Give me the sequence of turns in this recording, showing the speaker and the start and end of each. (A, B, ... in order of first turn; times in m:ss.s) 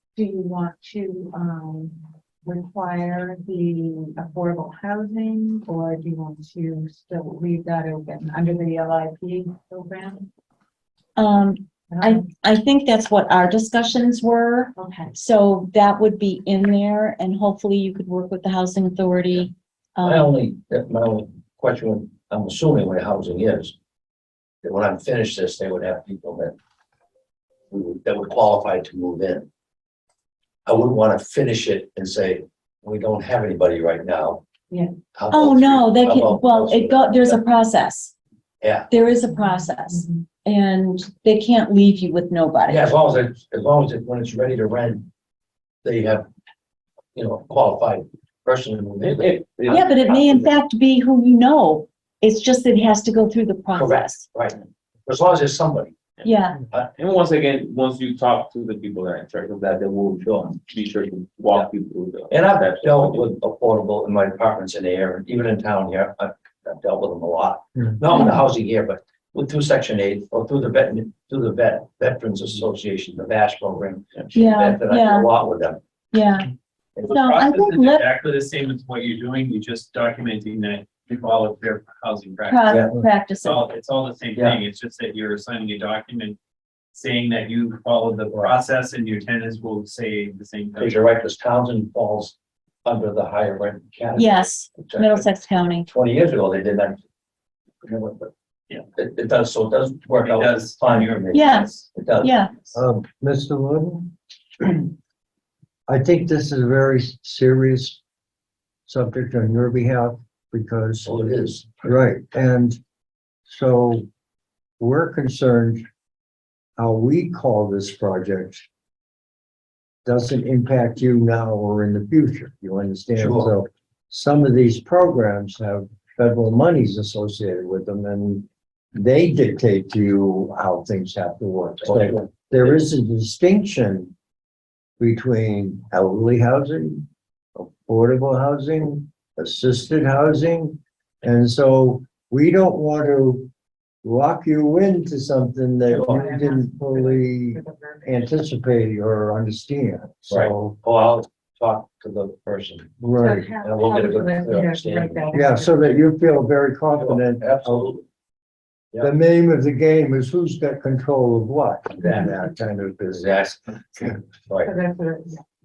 0:00.2-0:10.3 A
0:11.2-0:20.4 B
0:11.9-0:12.3 A
0:14.8-0:15.2 A
0:20.0-0:23.8 C
0:24.6-0:26.6 C
0:27.7-0:29.5 C
0:30.7-0:34.4 C
0:34.7-0:35.0 A
0:35.1-0:37.4 C
0:35.3-0:38.1 B
0:38.6-0:38.9 C
0:38.9-0:42.8 B
0:42.7-0:45.1 C
0:45.8-0:46.3 C
0:47.1-0:49.7 C
0:49.2-0:49.7 D
0:49.7-0:54.3 B
0:53.7-0:56.0 C
0:56.2-0:56.6 B
0:57.0-1:00.1 D
1:00.2-1:00.6 C
1:00.6-1:03.2 D
1:02.3-1:15.8 C
1:08.1-1:08.4 B
1:14.3-1:15.3 B
1:16.1-1:16.5 B
1:17.0-1:26.4 E
1:17.1-1:18.1 B
1:22.5-1:23.7 B
1:24.4-1:24.6 C
1:26.9-1:31.0 E
1:30.8-1:34.3 C
1:34.2-1:35.9 B
1:34.8-1:35.2 C
1:35.9-1:37.0 C
1:37.8-1:38.3 C
1:38.9-1:42.3 C
1:40.1-1:41.8 E
1:41.3-1:42.6 B
1:42.7-1:44.9 F
1:45.9-1:48.0 F
1:48.9-1:51.1 F
1:51.0-1:51.9 C
1:51.8-1:52.8 F
1:53.5-1:54.1 F
1:54.8-1:55.9 F
1:56.8-1:58.7 F
2:00.0-2:14.1 F
2:03.2-2:03.5 C
2:11.8-2:12.8 C
2:15.0-2:23.5 F
2:24.0-2:30.8 F
2:25.9-2:28.2 A
2:30.3-2:33.0 C
2:33.0-2:33.5 F
2:33.2-2:36.0 A
2:33.6-2:35.3 C
2:35.3-2:38.0 F
2:37.0-2:38.0 C
2:39.0-2:43.8 F
2:43.2-2:44.7 C
2:44.6-2:45.4 A